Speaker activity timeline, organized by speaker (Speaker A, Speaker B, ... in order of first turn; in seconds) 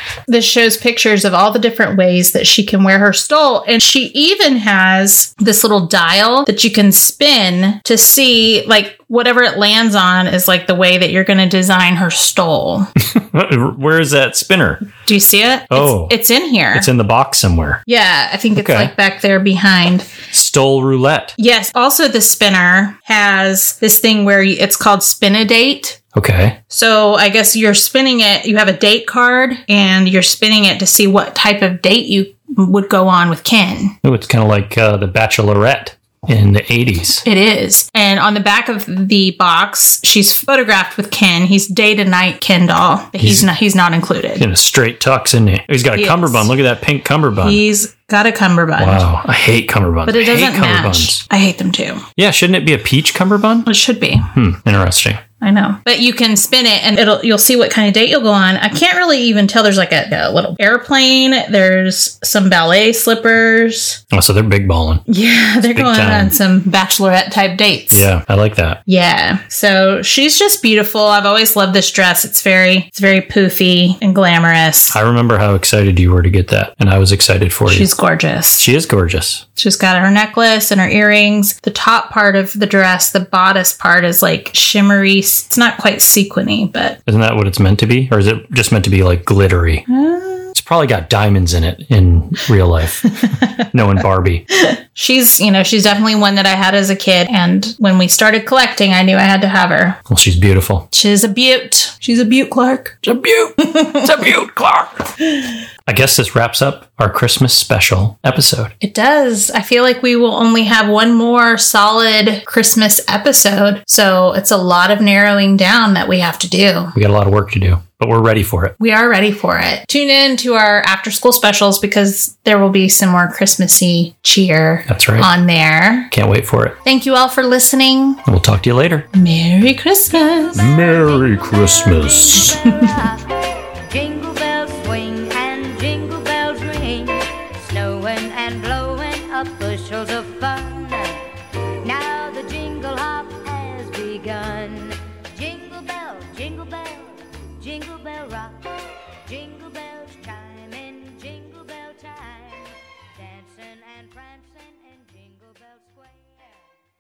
Speaker A: 0.3-12.9, 15.1-16.9, 17.9-20.1, 21.4-26.0, 26.7-34.0, 37.2-44.5, 46.0-46.5, 47.4-49.0, 50.1-52.0, 53.7-54.3, 55.4-64.0, 65.1-68.1, 68.9-75.0, 77.7-78.7, 79.6-87.0, 89.9-90.5, 93.1-93.6, 94.5-100.0, 100.9-103.0, 103.6-104.1, 108.8-116.9, 118.8-126.1, 126.8-128.2, 129.1-130.7, 132.6-132.9
Speaker B: 13.0-14.9, 15.7-16.1, 16.7-17.8, 18.6-18.9, 20.3-21.3, 26.1-26.6, 34.0-37.2, 43.2-43.5, 44.4-47.6, 48.8-51.2, 52.2-53.7, 54.3-55.2, 64.1-65.0, 65.7-66.4, 67.9-68.8, 74.9-77.9, 78.6-79.4, 87.1-89.8, 90.5-94.5, 100.1-100.9, 103.0-105.1, 105.9-108.7, 116.9-118.8, 124.9-125.3, 126.1-126.8, 128.2-129.1, 130.6-132.6
Speaker C: 130.7-141.2, 141.8-156.8